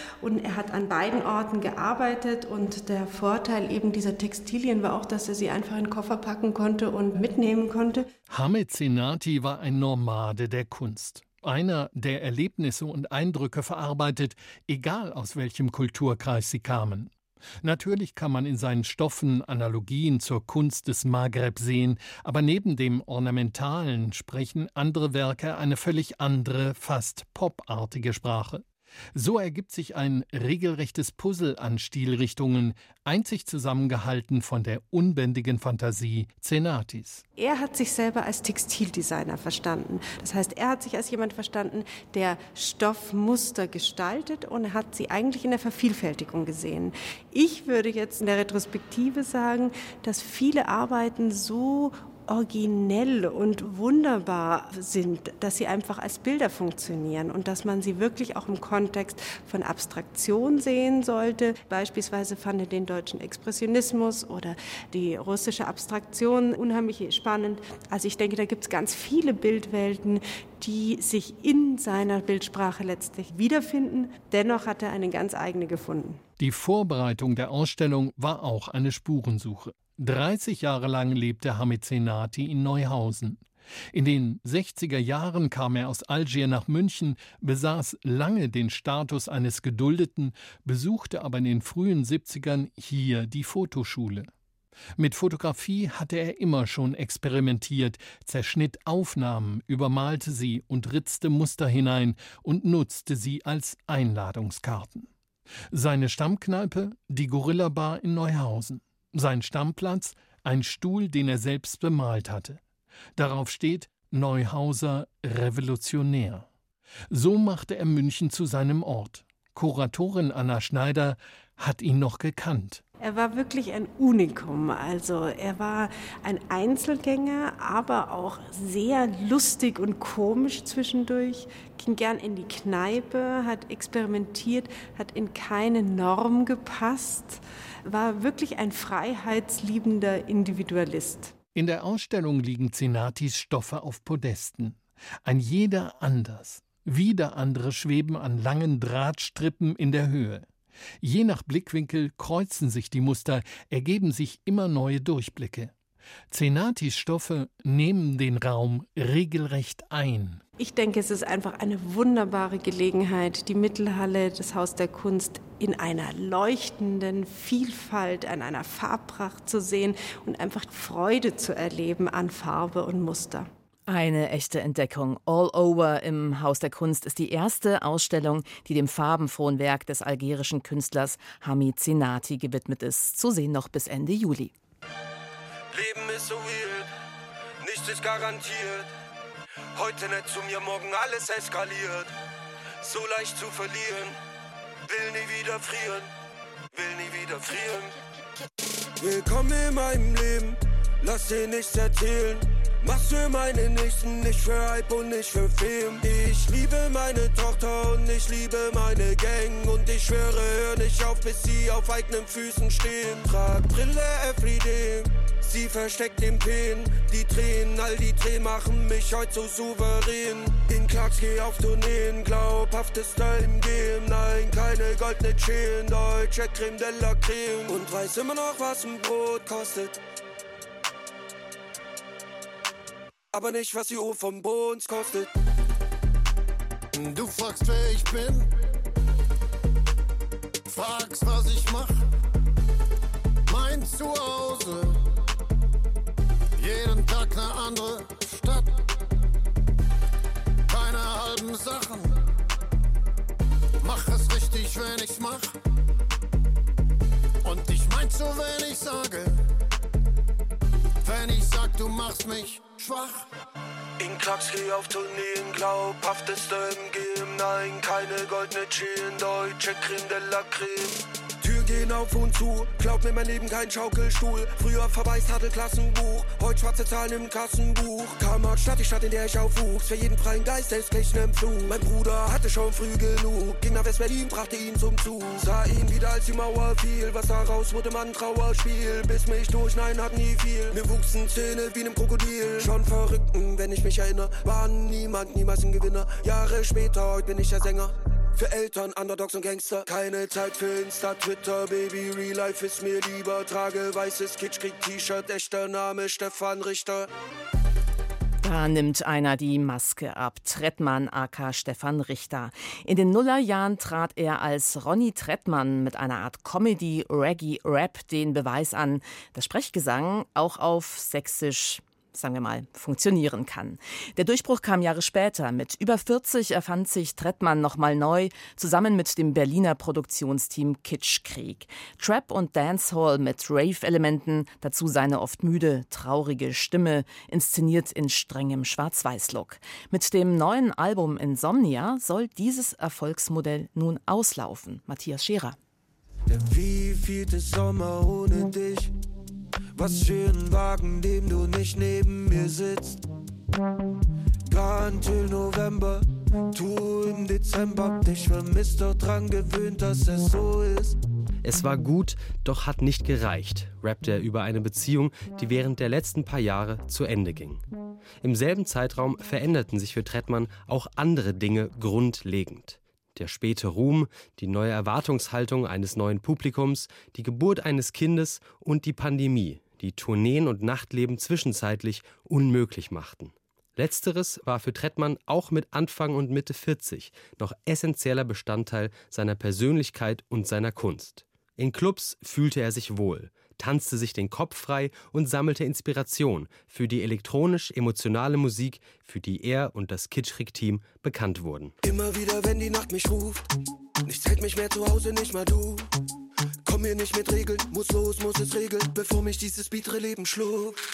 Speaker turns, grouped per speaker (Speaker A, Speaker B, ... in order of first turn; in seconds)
Speaker A: 0.2-8.1, 37.4-76.2, 123.0-141.3, 160.6-173.5
Speaker B: 8.3-37.2, 76.4-83.4, 83.9-94.3, 95.0-105.1, 105.7-112.6, 113.2-116.5, 117.1-122.8, 141.6-150.5, 151.0-155.7, 156.3-160.4
Speaker C: 173.9-184.5, 308.4-345.6
Speaker D: 185.7-186.9, 187.6-188.9, 189.7-192.1, 192.8-194.2, 194.9-196.1, 196.7-197.9, 199.0-230.0, 233.3-235.3, 264.0-307.1, 346.3-348.9, 349.8-353.0, 354.5-361.0, 401.8-403.5, 404.1-405.9, 406.6-410.8
Speaker E: 236.9-238.5, 240.7-242.0, 243.5-245.0, 246.6-248.7, 250.7-252.1, 253.8-255.5, 257.4-259.4, 261.0-263.2
Speaker F: 361.4-367.6, 368.2-401.7